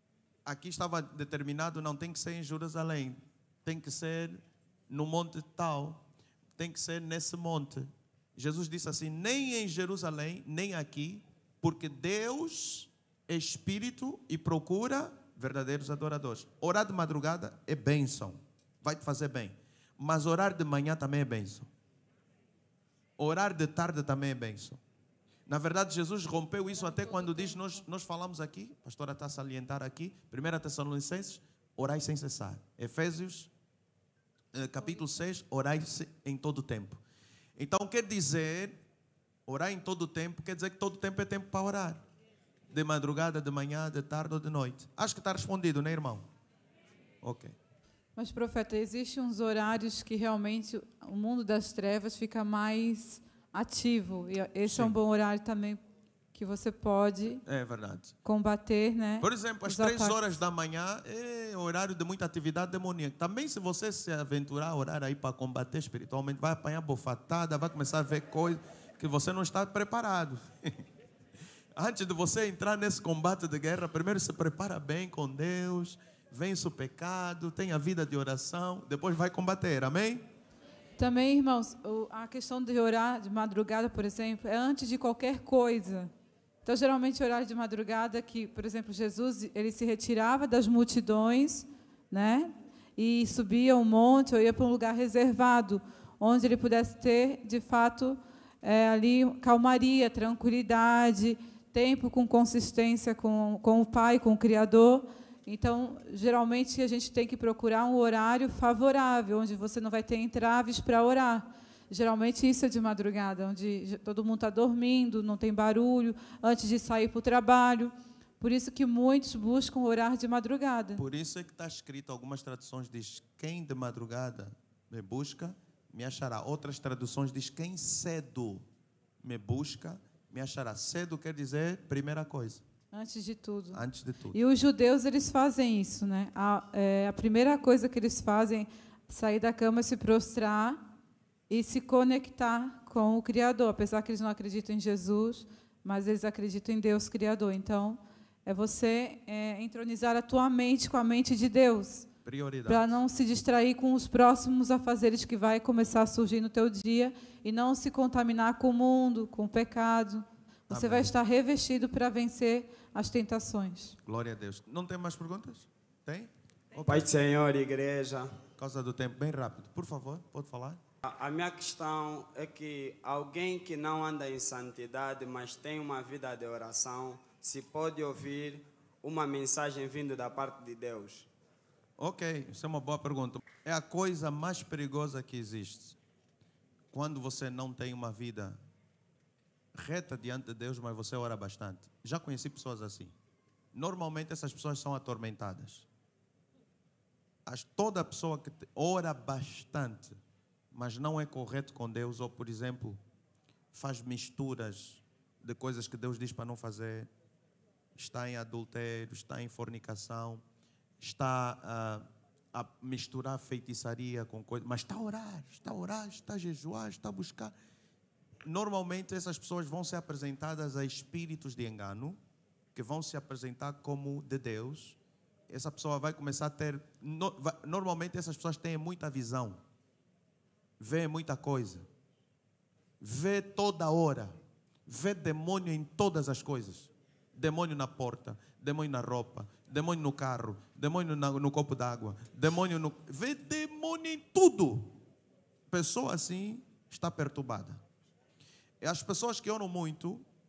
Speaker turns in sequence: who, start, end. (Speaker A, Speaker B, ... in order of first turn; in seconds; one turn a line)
Speaker A: 0.5-21.7
Speaker A: 23.2-24.8
Speaker A: 25.5-33.5
Speaker A: 34.5-37.0
Speaker A: 37.6-38.8
Speaker A: 39.5-42.0
Speaker A: 42.7-46.3
Speaker A: 47.2-47.6
Speaker B: 48.2-55.8
Speaker A: 54.6-55.0
Speaker B: 56.3-57.4
Speaker A: 57.5-58.2
Speaker B: 58.2-60.3
Speaker A: 59.2-70.8
Speaker A: 71.8-80.2
Speaker B: 81.0-86.1
Speaker B: 86.6-121.0
Speaker A: 121.0-128.7
Speaker A: 129.2-132.6
Speaker B: 132.9-133.8
Speaker A: 133.7-134.4
Speaker B: 134.3-140.8
Speaker B: 141.5-152.1
Speaker A: 152.2-153.0
Speaker B: 152.7-164.0
Speaker A: 160.7-161.1
Speaker A: 164.1-167.1
Speaker C: 166.9-168.4
Speaker A: 168.6-170.8
Speaker C: 171.0-181.3
Speaker A: 182.0-186.0
Speaker A: 186.9-188.6
Speaker A: 189.8-193.1
Speaker A: 193.7-195.9
Speaker A: 197.5-200.2
Speaker A: 200.7-203.0
Speaker A: 203.7-207.1
Speaker A: 207.9-210.4
Speaker A: 211.0-217.5
Speaker A: 218.4-222.2
Speaker A: 222.8-225.0
Speaker A: 225.5-229.6
Speaker A: 230.8-231.9
Speaker A: 233.0-234.3
Speaker A: 234.9-244.9
Speaker A: 245.7-247.8
Speaker A: 248.8-250.2